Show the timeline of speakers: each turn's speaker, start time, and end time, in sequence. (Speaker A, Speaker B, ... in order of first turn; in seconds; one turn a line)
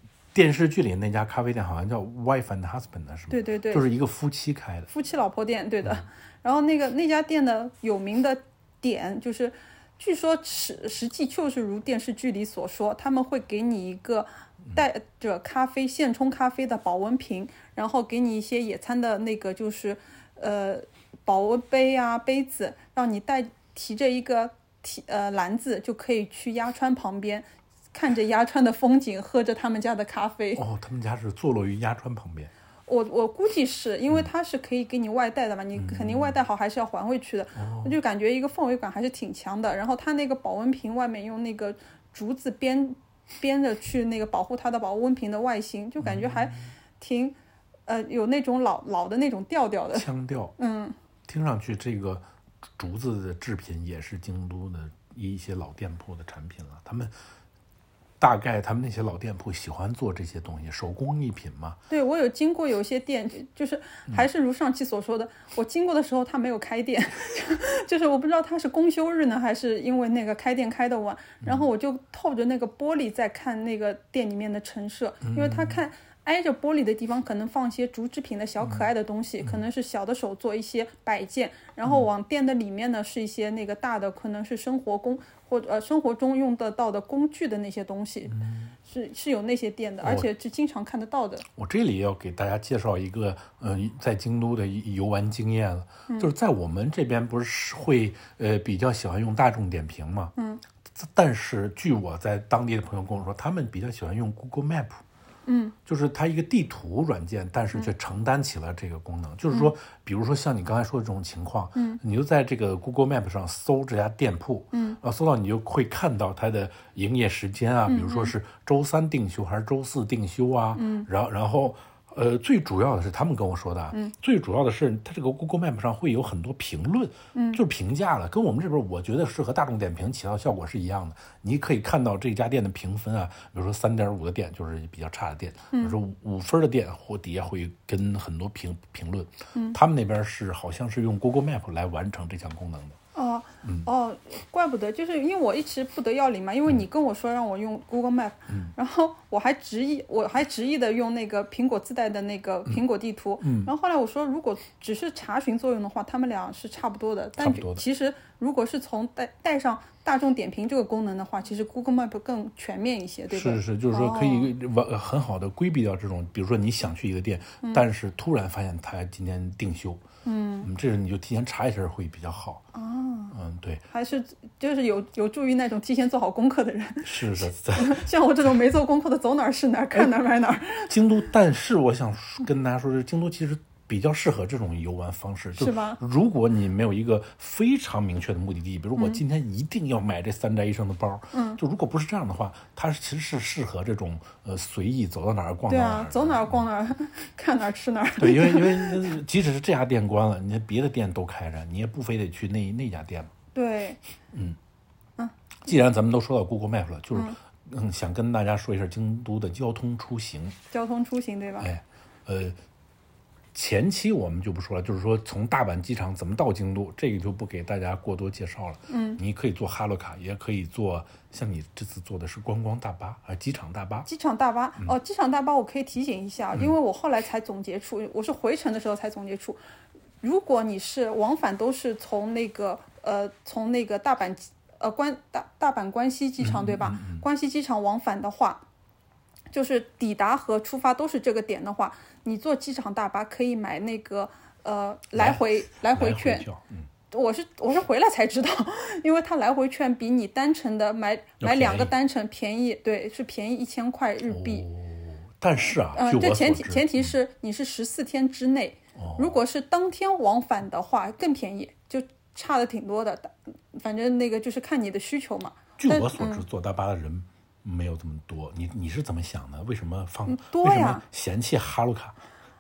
Speaker A: 0.3-4.9
Speaker B: 3.3-3.9
Speaker B: 4.9-30.6
Speaker A: 30.5-32.5
Speaker B: 32.9-51.0
Speaker A: 35.7-36.4
Speaker A: 37.5-38.0
Speaker A: 46.0-46.7
Speaker A: 49.9-50.5
Speaker A: 51.3-52.2
Speaker A: 52.8-57.1
Speaker A: 58.2-61.8
Speaker B: 61.9-91.4
Speaker A: 75.2-75.8
Speaker A: 78.6-78.9
Speaker A: 88.3-88.7
Speaker A: 90.0-90.3
Speaker A: 91.5-100.3
Speaker B: 100.3-100.6
Speaker A: 100.9-105.0
Speaker B: 105.5-105.8
Speaker A: 105.8-143.0
Speaker B: 114.7-115.0
Speaker B: 117.9-118.3
Speaker B: 120.7-121.1
Speaker B: 127.3-127.6
Speaker B: 135.7-136.0
Speaker B: 139.5-139.8
Speaker B: 143.1-164.5
Speaker A: 143.6-143.9
Speaker A: 153.4-153.7
Speaker A: 157.4-157.8
Speaker A: 163.3-170.0
Speaker B: 170.2-170.7
Speaker A: 170.6-172.6
Speaker B: 172.7-173.3
Speaker A: 173.3-173.8
Speaker B: 173.9-181.0
Speaker A: 177.0-178.1
Speaker A: 180.9-196.6
Speaker B: 185.6-186.0
Speaker B: 191.3-191.6
Speaker B: 195.7-199.2
Speaker A: 198.2-203.3
Speaker B: 203.5-204.0
Speaker A: 204.3-204.6
Speaker A: 205.6-210.6
Speaker B: 210.7-211.7
Speaker A: 211.6-212.6
Speaker A: 213.5-224.1
Speaker B: 218.9-219.2
Speaker B: 224.1-229.6
Speaker B: 230.2-238.6
Speaker A: 236.4-237.2
Speaker B: 239.5-246.5
Speaker A: 245.1-246.9
Speaker B: 247.1-254.6
Speaker A: 251.4-251.9
Speaker A: 254.3-257.1
Speaker B: 255.9-266.4
Speaker A: 258.9-259.4
Speaker A: 265.8-272.1
Speaker B: 270.2-271.0